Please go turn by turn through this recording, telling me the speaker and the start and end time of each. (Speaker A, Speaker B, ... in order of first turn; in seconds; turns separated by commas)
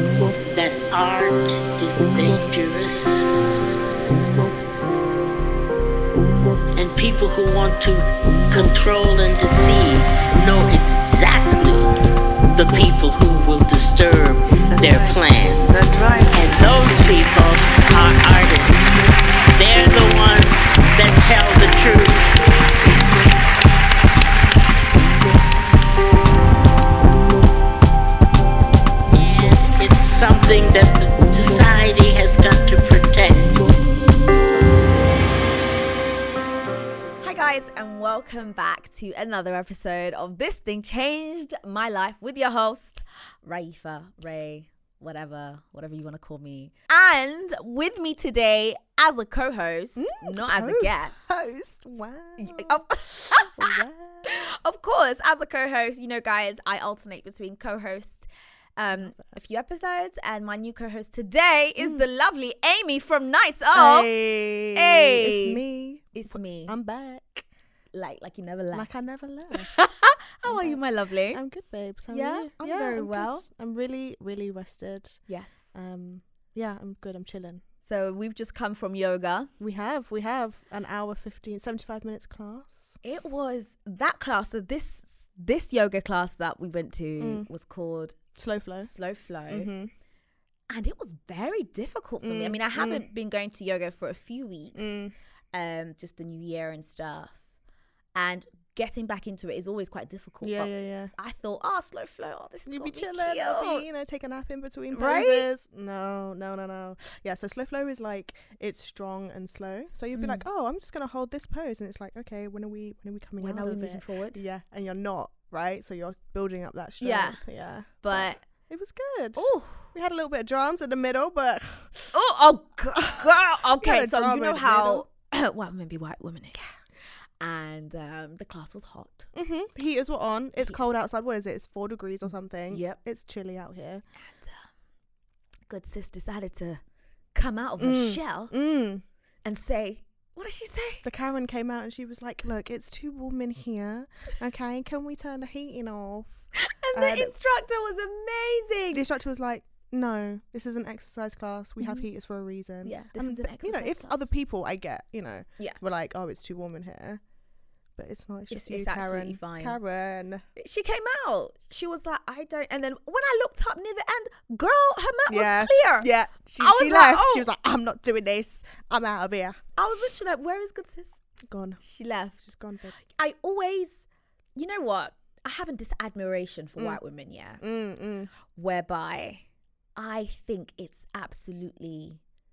Speaker A: 0.3-3.6, Speaker A: 6.8-11.9, Speaker A: 12.5-19.0, Speaker B: 14.8-15.2, Speaker B: 15.7-16.4, Speaker A: 19.6-22.3, Speaker A: 29.1-33.7, Speaker C: 37.2-51.2, Speaker B: 50.0-52.8, Speaker C: 52.4-64.1, Speaker B: 53.5-54.4, Speaker B: 58.9-59.2, Speaker B: 63.7-67.5, Speaker C: 64.7-66.7, Speaker C: 67.9-68.9, Speaker B: 68.7-69.9, Speaker C: 69.5-71.4, Speaker B: 70.4-77.6, Speaker C: 72.1-73.4, Speaker C: 75.3-75.6, Speaker C: 77.8-79.5, Speaker B: 79.6-83.0, Speaker C: 83.0-88.2, Speaker B: 87.2-87.5, Speaker B: 88.3-88.9, Speaker C: 88.8-89.7, Speaker B: 89.5-89.9, Speaker C: 90.7-95.0, Speaker B: 92.2-93.0, Speaker B: 94.8-95.1, Speaker C: 95.5-97.4, Speaker C: 98.1-103.8, Speaker B: 100.4-101.1, Speaker B: 102.7-122.1, Speaker C: 104.9-105.5, Speaker C: 110.1-110.4, Speaker C: 113.4-114.4, Speaker C: 117.0-117.4, Speaker C: 118.0-118.4, Speaker C: 119.3-119.9, Speaker C: 122.1-126.6, Speaker B: 123.0-125.0, Speaker C: 127.4-129.3, Speaker B: 129.3-134.0, Speaker C: 132.7-133.0, Speaker C: 134.2-134.7, Speaker C: 135.7-136.8, Speaker C: 137.3-138.5, Speaker B: 137.8-139.0, Speaker C: 139.4-141.0, Speaker B: 141.0-146.4, Speaker C: 146.6-149.0, Speaker B: 146.9-147.3, Speaker B: 148.9-157.2, Speaker C: 152.8-154.3, Speaker B: 157.9-160.4, Speaker C: 158.5-159.8, Speaker C: 160.6-167.5, Speaker B: 165.3-169.6, Speaker C: 169.8-171.2, Speaker B: 171.5-171.8, Speaker C: 171.8-172.5, Speaker B: 172.4-173.0, Speaker C: 173.1-177.6, Speaker B: 177.6-178.3, Speaker C: 178.4-179.4, Speaker C: 179.9-182.2